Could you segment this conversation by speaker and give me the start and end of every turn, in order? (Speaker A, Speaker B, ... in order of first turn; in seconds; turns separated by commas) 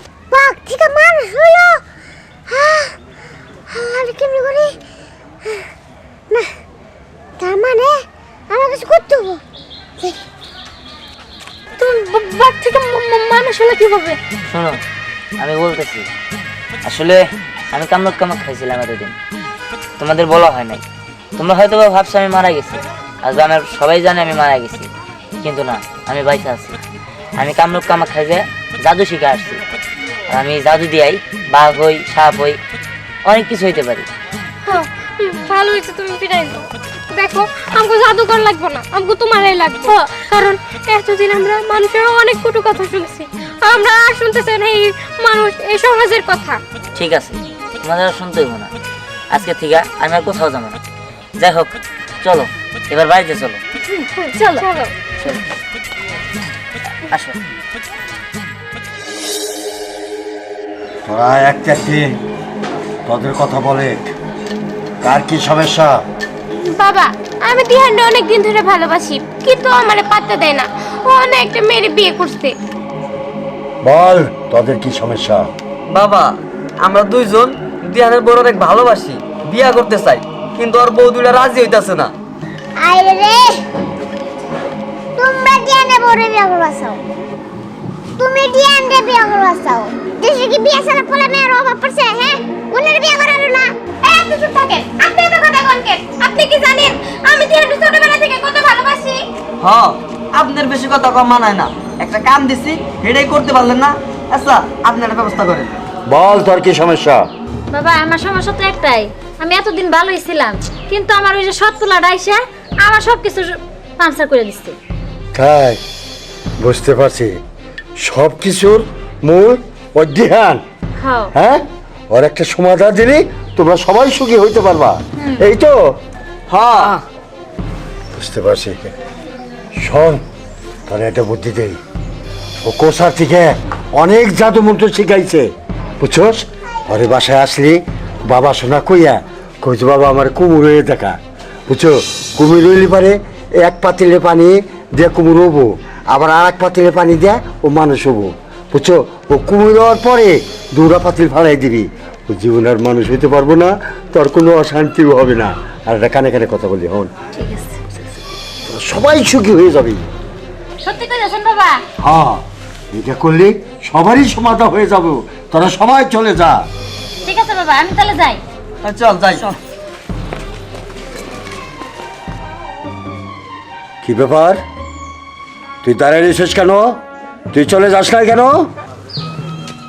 Speaker A: 0.3-1.8, Speaker A: 2.5-2.9, Speaker A: 3.7-4.7, Speaker A: 7.4-7.9, Speaker A: 8.5-9.4, Speaker B: 11.8-14.2, Speaker C: 14.5-14.8, Speaker C: 15.4-16.1, Speaker C: 16.9-19.2, Speaker C: 20.0-20.8, Speaker C: 21.4-24.9, Speaker C: 25.4-26.8, Speaker C: 27.4-29.6, Speaker C: 30.3-32.6, Speaker C: 33.2-34.1, Speaker B: 34.7-46.6, Speaker D: 37.9-38.2, Speaker D: 41.0-41.3, Speaker C: 47.0-48.7, Speaker C: 49.3-50.8, Speaker C: 51.4-53.6, Speaker D: 54.3-54.7, Speaker B: 54.5-54.9, Speaker C: 57.1-57.4, Speaker E: 61.1-62.1, Speaker E: 63.1-64.1, Speaker E: 65.0-66.0, Speaker B: 66.8-67.1, Speaker B: 67.7-72.5, Speaker E: 73.8-75.5, Speaker F: 75.9-82.1, Speaker A: 82.8-83.5, Speaker A: 85.2-87.0, Speaker A: 88.2-93.7, Speaker B: 94.0-99.2, Speaker F: 99.6-105.8, Speaker E: 106.1-107.2, Speaker D: 107.7-114.8, Speaker E: 115.3-115.8, Speaker E: 116.6-117.4, Speaker E: 118.0-120.6, Speaker D: 121.0-121.3, Speaker E: 121.3-125.8, Speaker F: 126.5-127.0, Speaker E: 128.1-128.9, Speaker E: 129.8-130.2, Speaker E: 130.9-131.8, Speaker E: 132.6-135.5, Speaker E: 136.0-157.1, Speaker D: 157.4-157.8, Speaker E: 158.7-160.0, Speaker D: 160.8-161.8, Speaker E: 162.0-166.6, Speaker D: 167.2-168.4, Speaker F: 168.8-169.6, Speaker E: 174.0-174.6, Speaker E: 175.8-177.0, Speaker E: 177.5-178.7